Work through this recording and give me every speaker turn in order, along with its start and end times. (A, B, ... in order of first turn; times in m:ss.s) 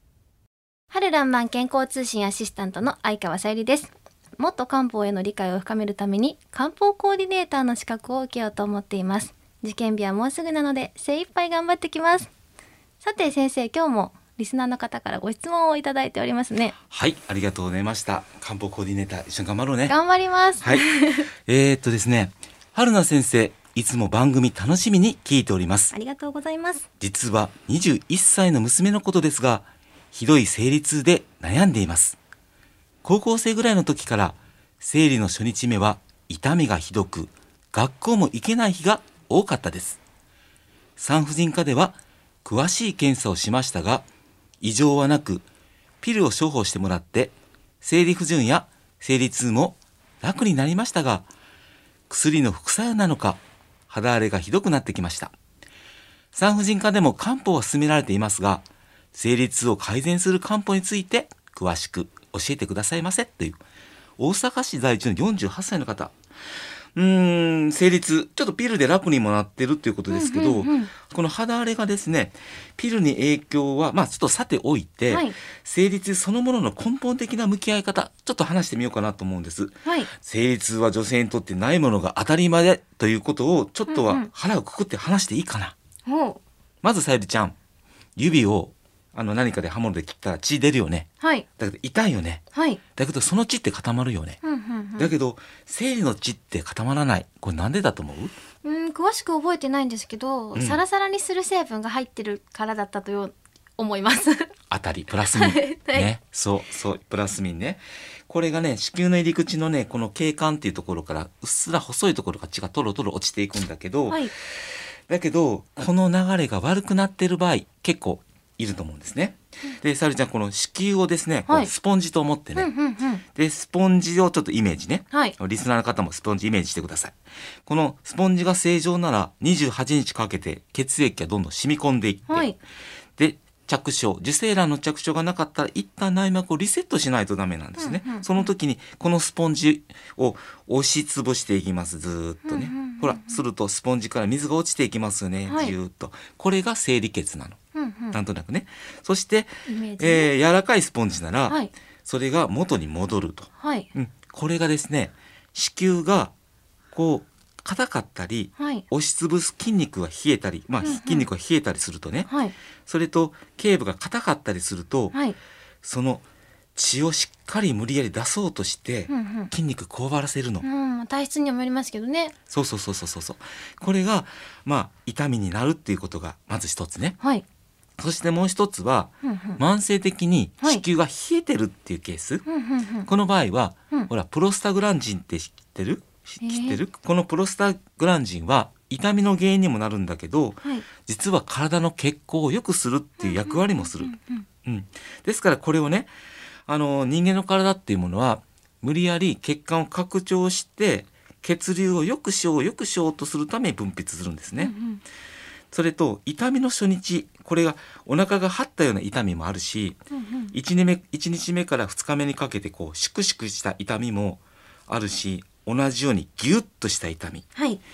0:00.9-0:12.3 A
0:13.0-0:16.7 A
0:16.9-0:20.0 B
0:19.9-0:21.3 A
0:21.5-0:25.9 B
0:25.9-0:26.8 A
0:27.0-0:32.2 B
0:33.0-0:40.0 B
0:41.0-0:44.1 B
0:44.6-0:45.4 B
0:46.0-0:51.3 B
0:52.1-0:55.3 B
0:56.3-1:03.6 B
1:04.2-1:06.1 B
1:07.0-1:25.8 B
1:10.1-1:10.9 A
1:15.1-1:15.4 A
1:19.8-1:20.1 A
1:23.9-1:24.3 A
1:26.1-1:26.4 A
1:26.8-1:27.6 B
1:28.2-1:32.4 B
1:31.2-1:31.5 A
1:32.5-1:32.8 A
1:33.0-1:34.4 B
1:34.4-1:35.1 A
1:35.0-1:38.3 B
1:38.6-1:44.5 A
1:40.6-1:40.8 B
1:44.7-1:54.3 B
1:45.2-1:46.1 A
1:55.1-2:02.7 B
2:01.5-2:01.7 A
2:02.6-2:03.2 A
2:03.4-2:12.5 B
2:05.1-2:05.4 A
2:12.3-2:12.6 A
2:13.2-2:27.6 B
2:17.8-2:18.5 A
2:22.5-2:23.4 A
2:25.4-2:25.8 A
2:27.7-2:28.2 A
2:28.1-2:36.3 B
2:29.7-2:30.3 A
2:33.6-2:33.9 A
2:36.9-2:42.3 B
2:38.6-2:38.8 A
2:40.8-2:41.3 A
2:42.2-2:42.5 A
2:42.9-2:45.1 B
2:45.8-2:46.2 B
2:46.8-2:50.7 B
2:49.1-2:49.5 A
2:50.6-2:52.3 A
2:52.5-2:57.2 B
2:58.0-3:02.4 B
2:59.2-2:59.6 A
3:02.4-3:03.1 A
3:03.0-3:16.1 B
3:06.4-3:06.8 A
3:13.2-3:14.4 A
3:16.7-3:24.7 B
3:24.5-3:25.0 A
3:25.7-3:30.0 B
3:30.1-3:30.5 A
3:30.5-3:37.5 B
3:37.5-3:37.8 A